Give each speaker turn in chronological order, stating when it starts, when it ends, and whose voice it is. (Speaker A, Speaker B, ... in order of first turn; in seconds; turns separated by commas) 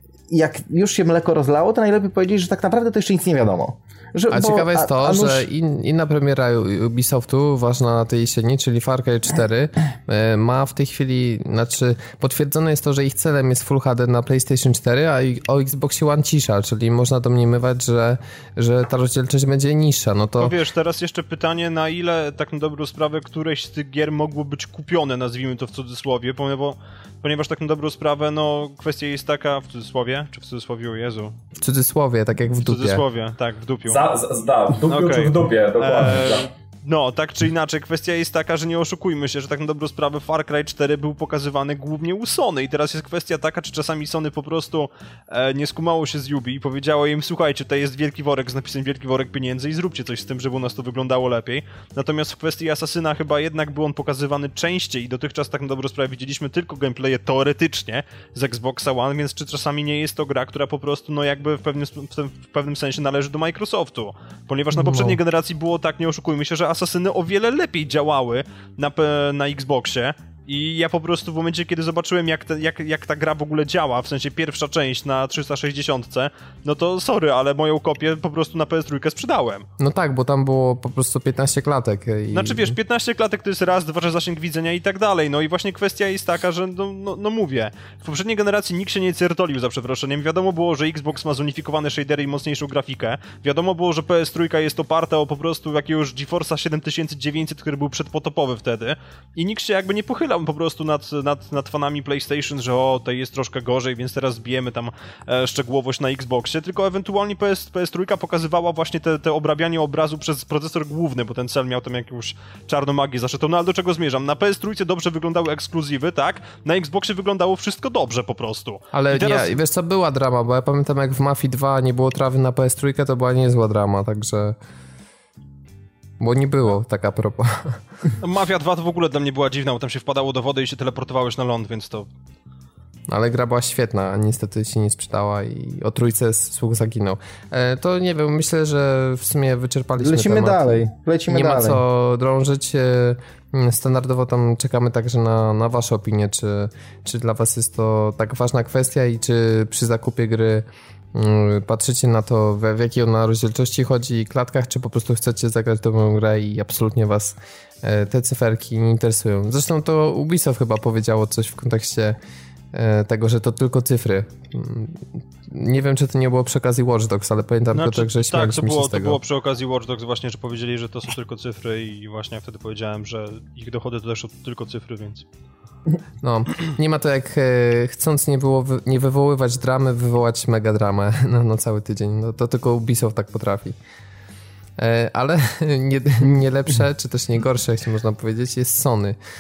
Speaker A: 0.3-5.5, Speaker B: 4.3-20.5, Speaker C: 20.4-31.3, Speaker B: 31.6-33.0, Speaker C: 32.6-34.0, Speaker D: 33.9-36.5, Speaker C: 34.9-79.7, Speaker B: 64.7-65.2, Speaker B: 79.8-82.8, Speaker C: 82.3-119.5, Speaker B: 118.9-124.5, Speaker B: 126.2-127.8, Speaker C: 128.2-132.1, Speaker B: 133.1-140.6, Speaker A: 140.0-141.8, Speaker B: 141.3-162.2, Speaker B: 162.7-169.2, Speaker C: 167.7-175.2, Speaker B: 176.2-183.8, Speaker B: 184.8-189.2